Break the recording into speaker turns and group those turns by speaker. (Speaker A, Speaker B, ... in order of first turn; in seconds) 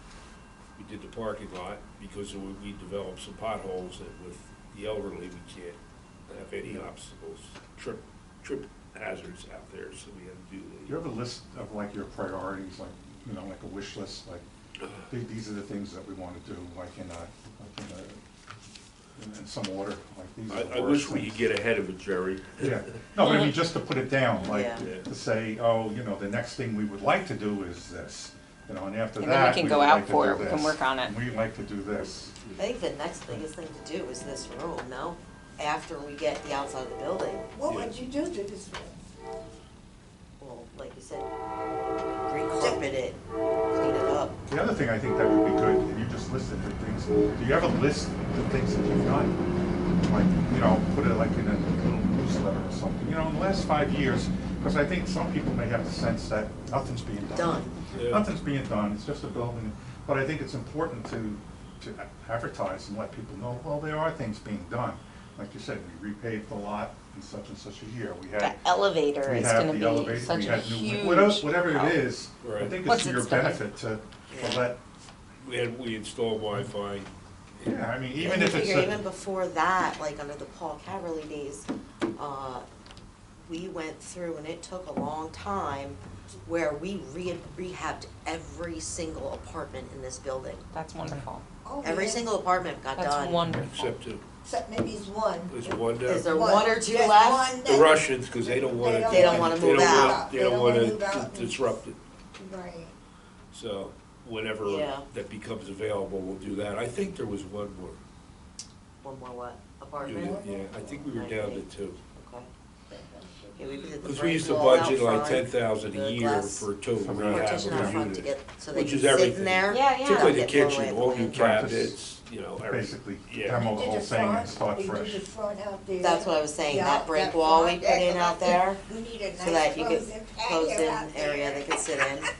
Speaker A: 0.8-11.0, 20.5-22.7, 24.7-25.1, 37.7-38.0, 57.9-58.3, 72.4-72.8, 75.4-77.1, 93.6-94.2, 95.5-96.3, 97.6-102.0, 103.5-108.0, 110.0-112.0, 114.0-123.7
Speaker B: 6.6-6.9, 10.9-14.4, 15.1-18.2, 19.1-21.5, 22.6-32.4, 44.5-49.4, 50.0-68.6, 69.2-74.8, 77.6-79.0, 117.0-118.0, 121.3-125.2
Speaker C: 23.2-23.6, 29.2-31.1, 68.4-72.0, 72.8-73.7, 90.7-91.4, 93.0-93.9, 119.7-120.5
Speaker D: 24.4-24.8, 32.6-37.5, 40.4-41.3, 42.2-43.2, 43.7-44.4, 57.3-57.8, 74.3-74.7, 78.2-81.7, 82.2-82.6, 83.5-90.6, 91.8-93.4, 96.0-97.6, 99.0-100.2, 104.6-105.0, 109.0-110.4, 111.0-111.6, 112.1-112.5, 113.5-116.7, 117.3-121.4, 126.0-128.8, 129.3-132.3
Speaker E: 37.5-39.0, 42.6-42.9, 91.6-92.3, 94.4-101.8, 102.3-102.9, 110.0-111.1, 112.9-113.7, 123.5-132.3